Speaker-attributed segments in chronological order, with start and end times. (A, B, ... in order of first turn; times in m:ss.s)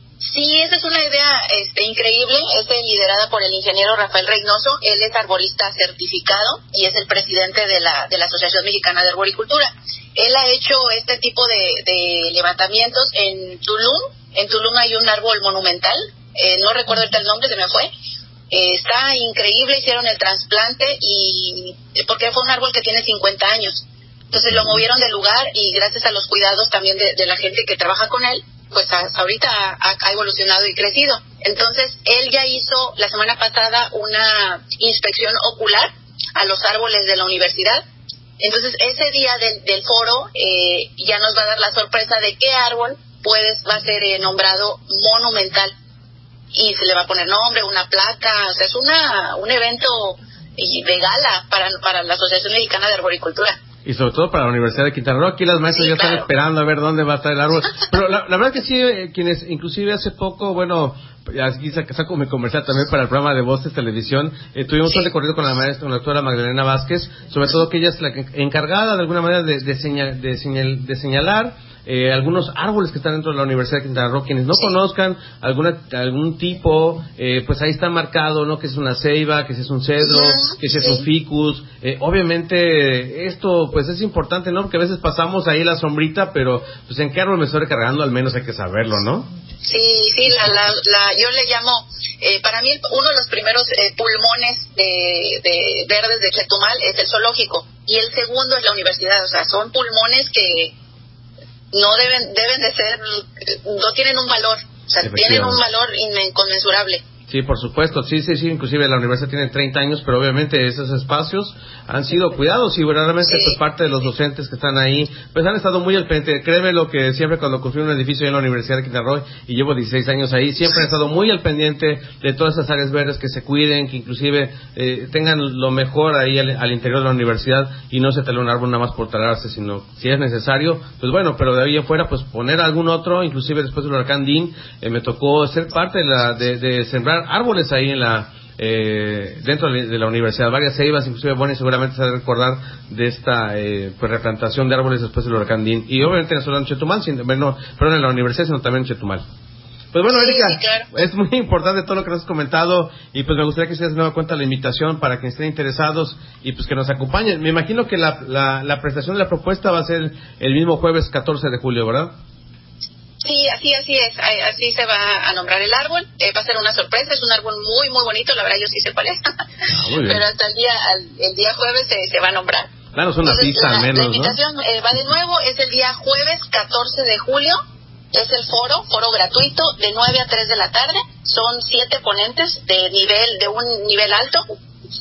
0:00.2-0:17.9 A
0:18.5-0:37.8 A
0:38.4-0:45.7 A
0:46.5-0:53.6 A
0:53.8-1:29.3 B
0:55.8-0:56.2 A
1:20.0-1:21.1 A
1:29.6-1:40.7 A
1:41.7-1:47.0 A
1:45.0-1:45.6 B
1:47.3-2:29.2 B
1:53.2-1:53.6 A
2:29.9-2:42.1 B
2:30.1-2:30.9 A
2:43.2-2:49.2 A
2:49.7-2:50.2 B
2:50.0-2:52.7 A
2:52.9-2:54.4 B
2:53.2-2:57.6 A
2:58.1-3:04.5 A